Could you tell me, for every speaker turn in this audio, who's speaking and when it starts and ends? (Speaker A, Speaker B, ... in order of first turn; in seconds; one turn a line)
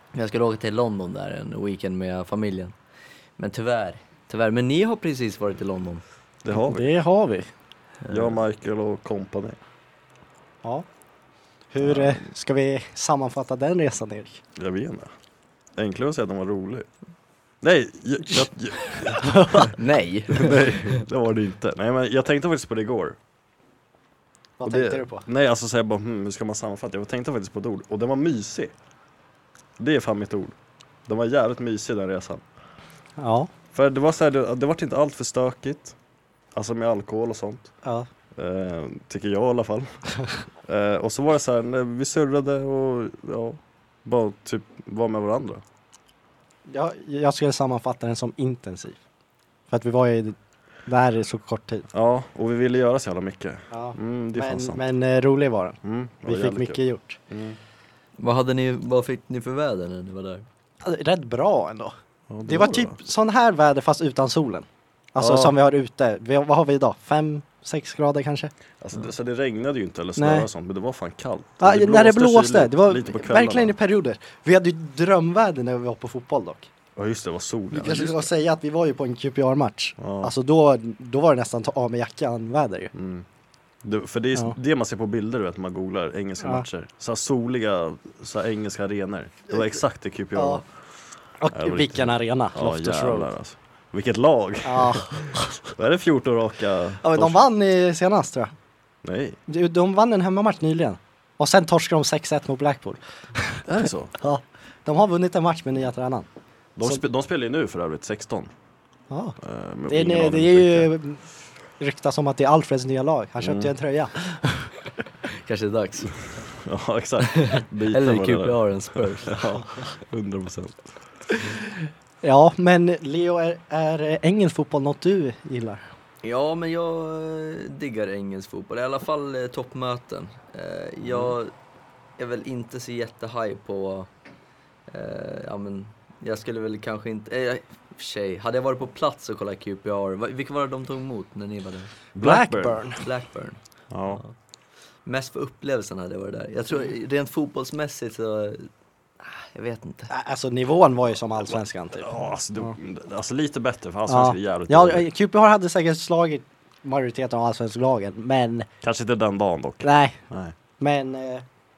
Speaker A: 0.1-2.7
Speaker A: 3.4-6.0
Speaker B: 6.4-6.9
Speaker C: 6.5-7.5
Speaker A: 8.1-8.3
Speaker B: 8.1-9.6
Speaker C: 11.7-14.4
Speaker B: 11.8-12.2
Speaker B: 14.6-15.1
Speaker B: 15.8-16.9
Speaker B: 17.6-19.7
Speaker C: 18.3-19.7
Speaker A: 19.7-21.0
Speaker B: 20.3-23.2
Speaker C: 24.6-25.3
Speaker B: 24.6-28.7
Speaker B: 29.8-30.6
Speaker B: 31.1-32.4
Speaker C: 33.2-33.5
Speaker B: 33.7-36.0
Speaker B: 36.5-37.7
Speaker B: 38.4-40.0
Speaker B: 40.6-45.6
Speaker C: 46.7-49.0
Speaker C: 49.7-51.9
Speaker B: 51.9-54.9
Speaker C: 53.7-57.2
Speaker B: 55.8-57.6
Speaker A: 58.2-60.5
Speaker C: 60.8-61.9
Speaker B: 62.3-63.0
Speaker C: 62.4-68.5
Speaker B: 65.2-65.5
Speaker B: 68.8-73.7
Speaker C: 70.2-70.5
Speaker C: 71.6-76.7
Speaker B: 77.0-78.3
Speaker C: 77.7-82.9
Speaker B: 80.0-80.3
Speaker B: 82.9-83.2
Speaker B: 83.8-90.7
Speaker C: 90.3-90.6
Speaker C: 91.4-93.3
Speaker B: 91.5-97.4
Speaker C: 94.6-95.6
Speaker C: 97.0-98.5
Speaker B: 99.0-99.4
Speaker C: 99.5-103.7
Speaker B: 103.7-104.1
Speaker C: 104.2-106.3
Speaker B: 106.8-108.5
Speaker C: 109.1-111.2
Speaker B: 109.4-110.9
Speaker C: 111.8-114.8
Speaker B: 113.4-113.7
Speaker A: 115.2-116.3
Speaker B: 116.4-121.0
Speaker A: 117.2-119.6
Speaker C: 121.3-125.8
Speaker A: 126.2-131.5
Speaker B: 131.0-131.4
Speaker A: 132.2-134.1
Speaker A: 134.9-141.9
Speaker B: 142.1-142.8
Speaker C: 142.2-143.0
Speaker A: 143.0-143.6
Speaker B: 143.9-144.2
Speaker A: 145.1-150.1
Speaker C: 150.1-152.8
Speaker B: 152.0-155.1
Speaker C: 154.1-158.7
Speaker B: 158.8-160.6
Speaker C: 159.8-160.2
Speaker C: 160.8-161.4